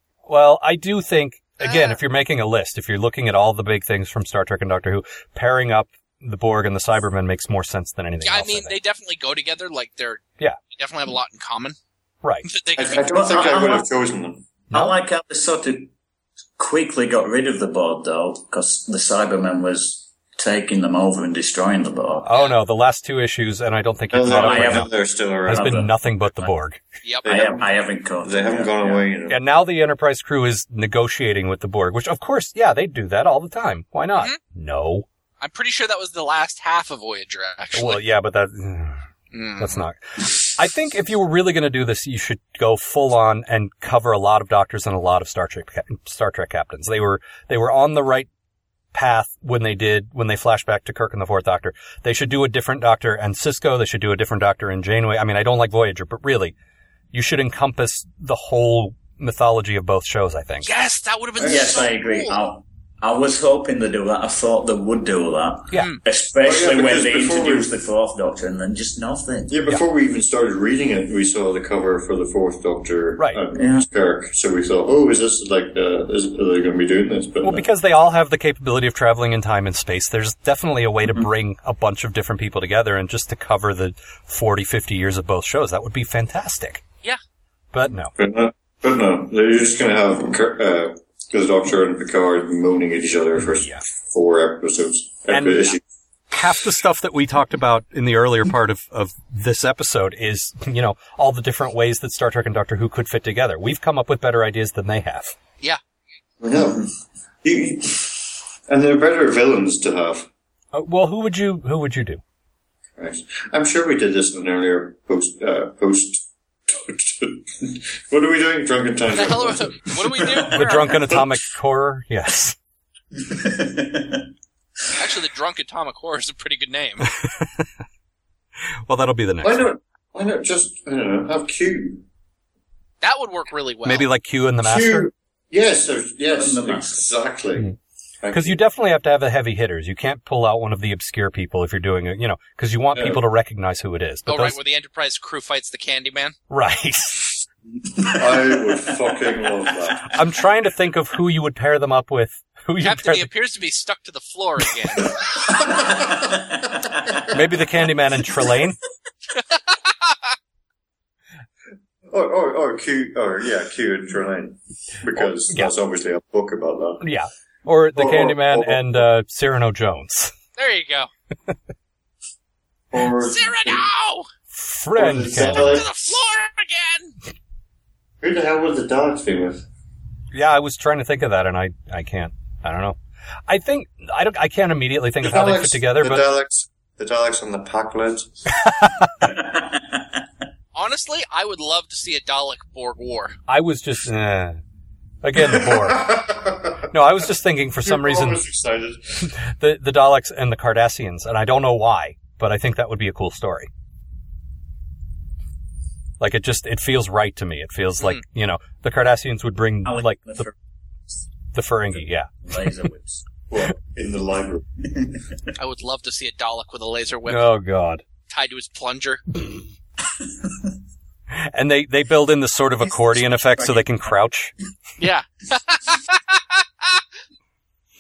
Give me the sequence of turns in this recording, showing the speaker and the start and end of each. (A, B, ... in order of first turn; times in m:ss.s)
0:00.3-0:08.8 A
0:01.6-0:02.0 B
0:08.2-0:11.8 B
0:12.2-0:12.5 A
0:12.4-0:13.4 B
0:12.8-0:14.5 C
0:13.0-0:13.9 D
0:14.7-0:15.0 A
0:14.7-0:15.9 D
0:16.6-0:22.3 D
0:22.2-0:24.9 A
0:24.1-0:25.8 C
0:24.3-0:26.5 D
0:25.4-0:26.8 A
0:27.2-0:29.4 C
0:27.2-0:29.1 D
0:29.3-0:35.1 A
0:35.4-0:38.0 B
0:37.7-0:39.0 A
0:39.3-0:39.8 B
0:39.6-0:48.3 A
0:48.9-0:56.6 A
0:57.1-1:00.7 A
1:00.7-1:02.4 B
1:01.4-1:01.8 C
1:01.4-1:09.6 D
1:05.8-1:06.0 B
1:06.4-1:07.7 C
1:09.5-1:17.7 C
1:13.6-1:13.9 D
1:17.4-1:26.8 A
1:27.7-1:28.1 A
1:28.2-1:35.8 C
1:35.3-1:35.8 A
1:36.3-1:45.4 A
1:46.4-1:46.9 C
1:47.4-1:50.3 C
1:50.7-1:52.2 A
1:53.0-2:00.5 C
1:59.1-2:01.0 B
2:00.5-2:02.6 A
2:03.2-2:04.3 D
2:05.0-2:07.1 B
2:08.9-2:09.7 A
2:09.4-2:12.0 C
2:13.0-2:14.1 B
2:13.8-2:15.1 A
2:14.6-2:18.6 C
2:16.3-2:17.1 D
2:18.3-2:24.6 A
2:24.3-2:26.4 B
2:26.5-2:27.4 A
2:28.0-2:30.2 C
2:28.2-2:28.8 D
2:30.1-2:33.3 A
2:32.8-2:35.8 B
2:35.6-2:36.2 C
2:35.7-2:36.4 D
2:37.3-2:38.8 A
2:42.1-2:47.1 C
2:45.2-2:45.7 A
2:47.0-2:50.3 A
2:48.0-2:49.1 C
2:50.6-2:51.1 B
2:52.9-2:53.8 C
2:53.2-2:54.3 B
2:54.5-2:55.8 A
2:55.0-2:55.9 C
2:55.4-2:57.2 B
2:58.2-2:59.6 C
3:00.3-3:06.3 A
3:05.2-3:08.3 C
3:09.2-3:10.2 D
3:10.7-3:13.4 B
3:13.5-3:14.6 A
3:15.2-3:16.1 A
3:15.4-3:16.9 C
3:16.9-3:18.4 A
3:17.8-3:19.3 C
3:19.3-3:23.7 A
3:26.2-3:30.5 A
3:29.8-3:30.5 D
3:31.5-3:32.3 A
3:32.4-3:33.3 D
3:33.5-3:34.7 C
3:35.6-3:37.5 B
3:37.3-3:38.0 A
3:38.3-3:39.2 B
3:41.3-3:44.5 A
3:43.0-3:43.9 D
3:45.0-3:47.0 B